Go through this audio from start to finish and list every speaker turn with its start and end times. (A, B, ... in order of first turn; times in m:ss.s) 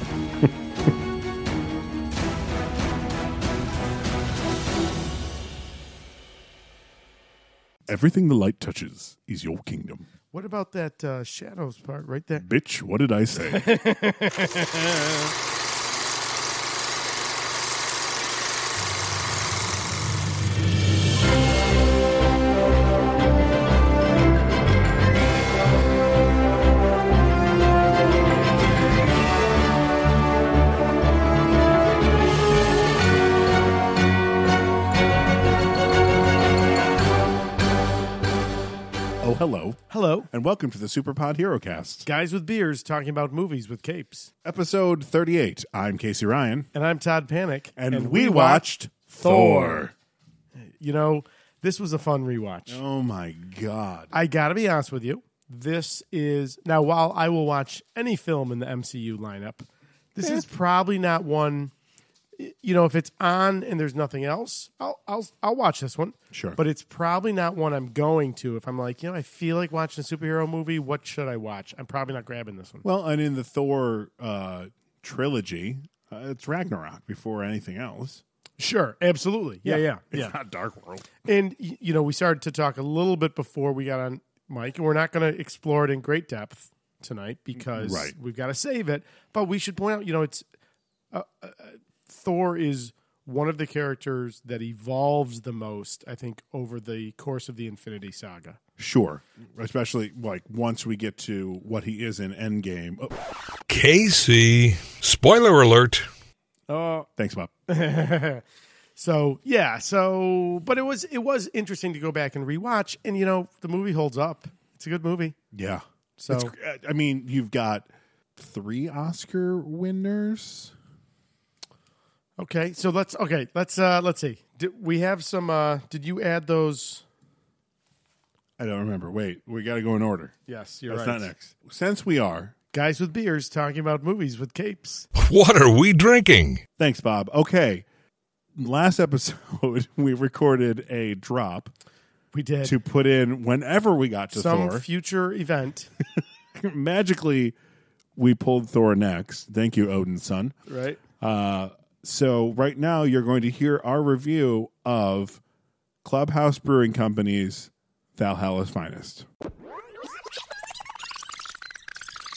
0:07.9-0:10.0 A
0:10.3-0:12.5 B
0:12.4-0:13.7 A
0:13.4-0:15.3 B
0:39.2-0:42.1 A
0:39.9-0:40.3 B
0:42.0-0:44.3 B
0:44.4-0:46.7 A
0:46.7-0:48.7 B
0:47.8-0:49.9 A
0:49.2-0:49.9 B
0:50.6-0:52.8 B
0:52.7-0:54.1 A
0:54.1-1:01.7 B
1:02.4-1:12.8 B
1:06.3-1:06.6 A
1:12.8-1:18.2 A
1:18.6-1:20.3 B
1:19.6-1:21.1 A
1:21.2-1:30.5 B
1:27.7-1:28.1 A
1:31.1-1:38.6 B
1:38.8-1:43.2 A
1:43.7-1:46.1 C
1:46.7-1:47.1 B
1:47.2-1:47.5 A
1:47.7-1:48.4 B
1:49.0-1:55.4 B
1:55.5-2:00.7 A
1:56.2-1:56.5 B
2:02.4-2:07.0 B
2:08.6-2:10.3 A
2:10.5-2:11.3 B
2:10.9-2:12.5 A
2:12.7-2:15.1 B
2:15.2-2:16.6 C
2:16.8-2:17.8 A
2:18.6-2:21.7 A
2:22.3-2:22.8 B
2:22.6-2:24.9 A
2:24.3-2:25.9 B
2:26.6-2:27.6 A
2:28.2-2:30.6 A
2:30.7-2:31.0 B
2:31.2-2:35.4 A
2:36.0-2:39.3 A